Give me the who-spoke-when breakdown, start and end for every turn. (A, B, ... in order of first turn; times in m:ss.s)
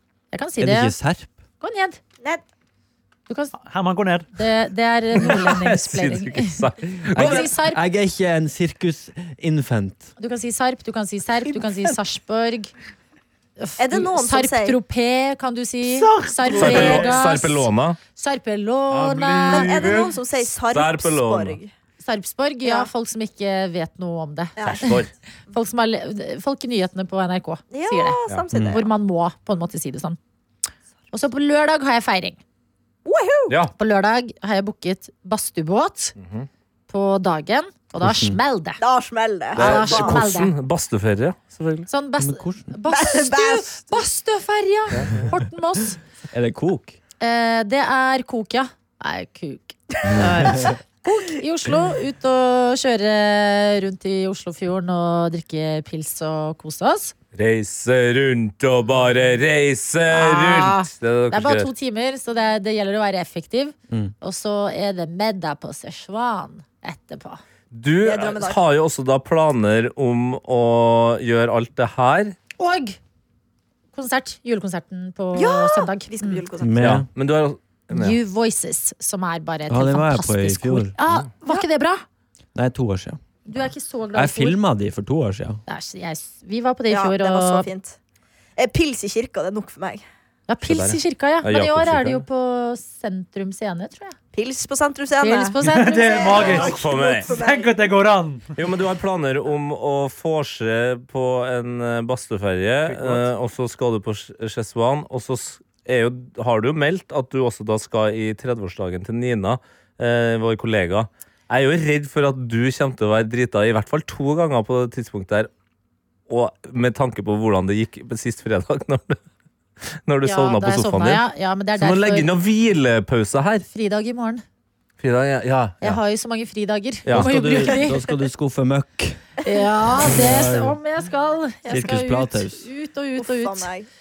0:00.3-0:01.0 A
0:00.6-0:01.4 B
0:01.6-0:02.0 A
0:03.3-0:03.6 A
0:03.6-0:04.3 C
0:04.4-0:06.6 A
0:05.2-0:07.5 D
0:07.1-0:10.1 B
0:07.2-0:07.8 A
0:10.2-0:12.7 A
0:11.6-0:12.0 D
0:13.6-0:20.0 A
0:13.8-0:14.8 E
0:15.8-0:17.3 C
0:16.6-0:18.0 D
0:18.9-0:20.0 C
0:19.5-0:21.7 E
0:19.7-0:20.1 D
0:20.7-0:21.6 D
0:22.0-0:30.2 A
0:22.6-0:22.9 E
0:24.6-0:25.0 E
0:24.6-0:25.1 D
0:27.7-0:28.9 E
0:31.1-0:32.4 A
0:33.0-0:33.6 E
0:33.5-0:33.7 D
0:33.8-0:36.2 A
0:36.2-0:36.5 D
0:36.9-0:38.8 A
0:38.0-0:38.4 B
0:38.8-0:40.2 E
0:39.6-0:40.5 A
0:39.6-0:41.9 D
0:41.9-0:46.0 A
0:42.2-0:42.8 B
0:42.9-0:44.0 E
0:46.3-0:47.0 B
0:47.2-0:57.1 A
0:57.3-1:01.7 D
1:00.1-1:07.4 A
1:07.7-1:12.4 D
1:08.0-1:08.6 E
1:12.6-1:13.0 A
1:13.9-1:16.5 A
1:15.3-1:17.0 E
1:16.6-1:17.1 B
1:16.8-1:18.2 D
1:17.9-1:22.0 A
1:19.7-1:21.0 B
1:22.6-1:23.2 B
1:23.5-1:24.6 A
1:24.1-1:25.6 B
1:25.7-1:27.7 A
1:26.9-1:28.0 E
1:28.6-1:30.0 E
1:30.5-1:34.2 A
1:30.6-1:32.2 D
1:34.3-1:37.8 E
1:35.2-1:36.6 A
1:35.6-1:38.5 C
1:36.5-1:37.3 D
1:38.6-1:55.5 D
1:42.8-1:43.3 C
1:56.3-1:59.2 D
2:00.0-2:01.2 D
2:00.2-2:02.3 A
2:01.8-2:03.7 D
2:03.7-2:04.4 A
2:05.0-2:06.0 D
2:05.8-2:08.1 A
2:07.1-2:07.3 D
2:07.1-2:09.2 B
2:09.4-2:13.7 A
2:10.0-2:10.8 B
2:11.7-2:12.7 B
2:11.7-2:12.0 E
2:13.2-2:13.9 E